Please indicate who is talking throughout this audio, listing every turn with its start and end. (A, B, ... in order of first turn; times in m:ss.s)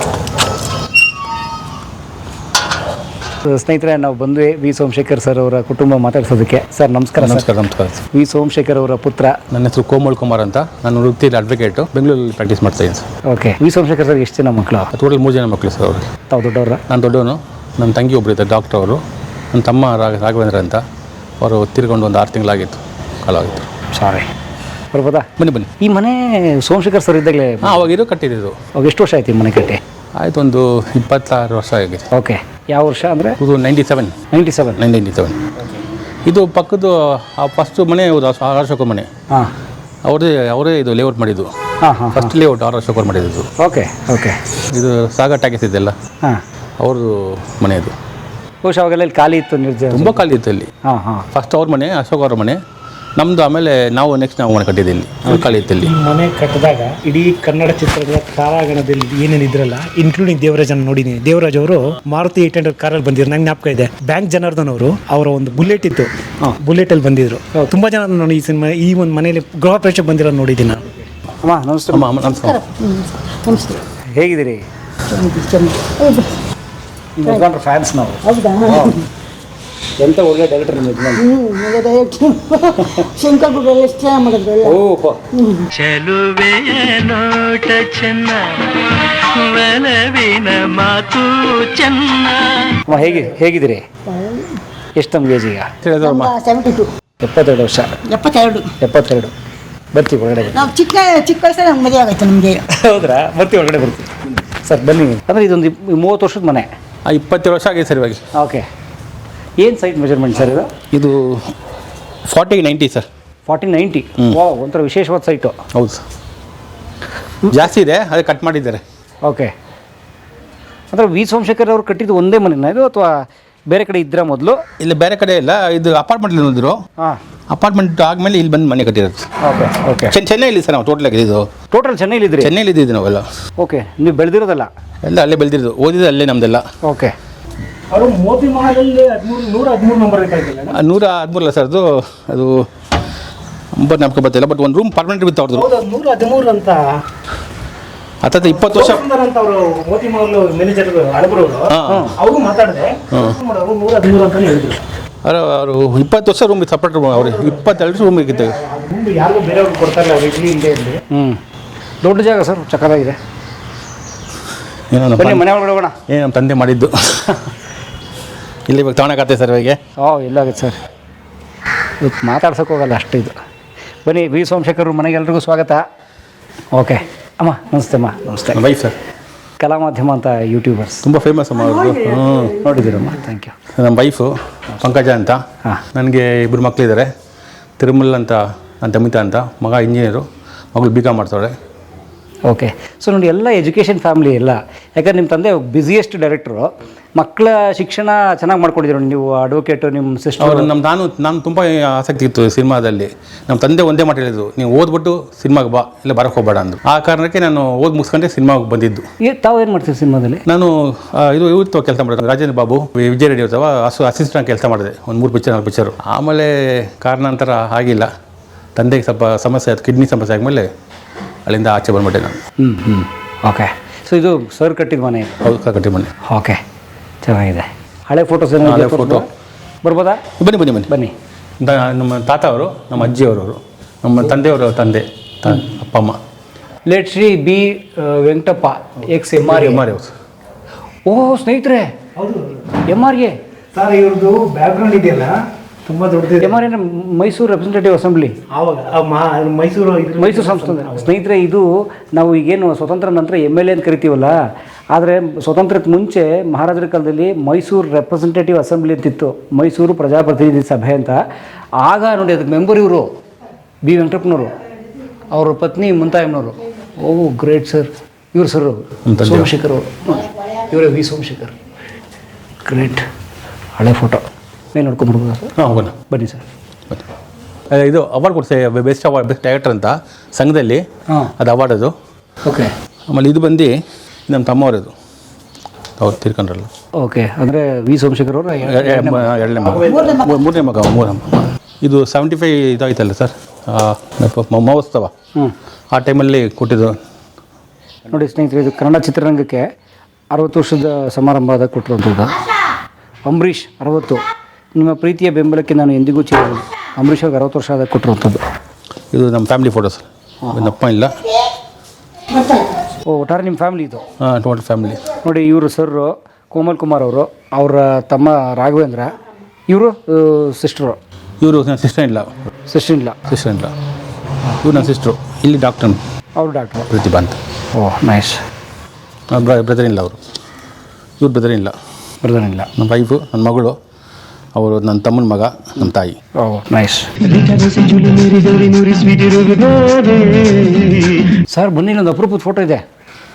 0:03.4-0:07.4 A
0:07.2-0:08.0 B
0:08.1-0:09.4 A
0:09.5-0:13.0 B
0:13.2-0:14.9 A
0:14.9-0:16.1 B
0:16.3-0:16.8 A
0:16.9-0:19.0 B
0:19.5-0:20.8 B
0:21.4-0:23.7 B
0:23.9-0:24.3 A
0:24.9-0:27.8 A
0:25.4-0:25.7 B
0:27.6-0:28.6 B
0:28.8-0:29.8 A
0:30.2-0:32.1 B
0:32.1-0:33.4 A
0:33.4-0:34.2 B
0:34.3-0:34.8 A
0:34.8-0:35.4 B
0:36.3-0:39.1 B
0:40.0-0:41.5 B
0:41.8-0:42.3 A
0:42.1-0:43.5 B
0:43.6-0:44.4 A
0:44.7-0:45.9 B
0:46.8-0:47.9 B
0:48.6-0:50.2 A
0:49.9-0:50.7 B
0:50.8-0:51.3 A
0:51.3-0:52.6 B
0:53.2-0:55.9 B
0:55.8-1:10.9 C
1:11.4-1:12.1 A
1:11.9-1:12.6 B
1:12.4-1:13.8 D
1:14.1-1:14.6 A
1:15.1-1:16.4 D
1:17.2-1:19.0 A
1:18.2-1:19.0 D
1:20.0-1:21.2 A
1:21.2-1:24.8 D
1:24.6-1:25.2 A
1:25.3-1:25.7 D
1:25.7-1:32.8 E
1:32.8-1:33.8 A
1:34.1-1:34.6 D
1:35.0-1:35.7 A
1:35.8-1:36.3 B
1:36.0-1:36.9 D
1:37.2-1:38.0 A
1:38.1-1:38.7 D
1:38.8-1:39.3 A
1:39.9-1:40.7 A
1:40.5-1:42.6 D
1:42.8-1:46.7 A
1:47.0-1:48.2 B
1:48.3-1:48.6 A
1:49.6-1:50.7 A
1:50.9-1:51.5 B
1:52.3-1:53.0 B
1:53.5-1:55.6 A
1:55.7-1:56.0 B
1:57.5-1:58.8 B
1:59.2-1:59.5 A
2:00.9-2:04.6 A
2:04.8-2:06.8 B
2:07.5-2:09.3 B
2:09.4-2:10.2 A
2:10.0-2:11.5 B
2:11.7-2:12.5 A
2:12.4-2:13.2 B
2:13.6-2:14.7 A
2:15.0-2:16.6 B
2:16.8-2:17.1 A
2:17.9-2:20.8 C
2:20.7-2:22.7 B
2:23.7-2:25.6 B
2:25.5-2:26.9 C
2:28.2-2:29.0 B
2:28.5-2:34.8 C
2:31.7-2:32.1 B
2:31.9-2:32.1 A
2:35.2-2:38.5 B
2:37.2-2:41.0 C
2:41.1-2:41.4 A
2:42.0-2:43.2 A
2:44.9-2:45.6 B
2:45.2-2:46.0 A
2:46.1-2:47.4 B
2:48.7-2:49.8 B
2:50.0-2:50.8 A
2:52.0-2:53.4 A
2:54.0-2:55.8 A
2:56.7-2:58.6 A
2:58.5-2:58.9 B
2:59.6-3:01.0 A
3:01.0-3:02.6 B
3:02.6-3:03.5 A
3:03.8-3:05.4 B
3:05.9-3:07.1 B
3:07.8-3:11.5 B
3:12.5-3:20.7 A
3:20.4-3:29.0 B
3:29.2-3:30.4 A
3:30.5-3:38.1 B
3:38.8-3:40.7 B
3:41.4-3:42.4 B
3:42.6-3:45.4 A
3:45.4-3:46.1 B
3:46.2-3:46.6 A
3:47.2-3:49.3 A
3:48.6-3:49.2 B
3:49.8-3:50.2 A
3:50.4-3:50.9 B
3:50.9-3:51.1 A
3:51.6-3:56.2 B
3:56.9-3:59.8 A
3:59.4-4:00.1 B
4:01.1-4:01.9 A
4:02.2-4:02.8 C
4:02.9-4:03.4 A
4:03.7-4:05.3 C
4:05.8-4:06.6 C
4:06.4-4:08.4 A
4:08.5-4:11.1 C
4:10.2-4:14.4 A
4:14.9-4:21.2 A
4:21.8-4:23.1 A
4:23.8-4:24.5 A
4:25.3-4:31.6 A
4:29.1-4:29.5 B
4:32.6-4:33.0 A
4:33.8-4:34.2 A
4:34.7-4:35.5 A
4:35.6-4:36.0 B
4:36.1-4:36.4 A
4:37.7-4:40.8 B
4:41.4-4:41.9 B
4:42.4-4:42.7 A
4:43.1-4:43.7 B
4:44.3-4:44.9 B
4:46.0-4:46.7 B
4:47.0-4:49.3 A
4:48.6-4:55.1 B
4:49.6-4:50.2 C
4:49.8-4:50.4 D
4:55.9-4:57.0 B
4:58.1-4:59.7 A
5:00.3-5:02.4 A
5:03.2-5:04.2 A
5:04.8-5:08.4 A
5:09.1-5:11.2 B
5:10.4-5:10.7 A
5:13.1-5:14.0 A
5:14.2-5:15.1 B
5:15.2-5:19.1 A
5:19.7-5:21.0 A
5:21.4-5:22.3 B
5:22.7-5:23.2 A
5:23.3-5:23.7 B
5:24.6-5:26.0 B
5:26.4-5:26.9 A
5:26.9-5:27.4 B
5:27.7-5:28.4 A
5:29.3-5:30.2 B
5:31.2-5:31.7 B
5:32.2-5:32.7 A
5:32.8-5:33.8 B
5:34.6-5:36.2 B
5:36.4-5:37.1 A
5:37.2-5:41.2 E
5:41.5-5:42.8 A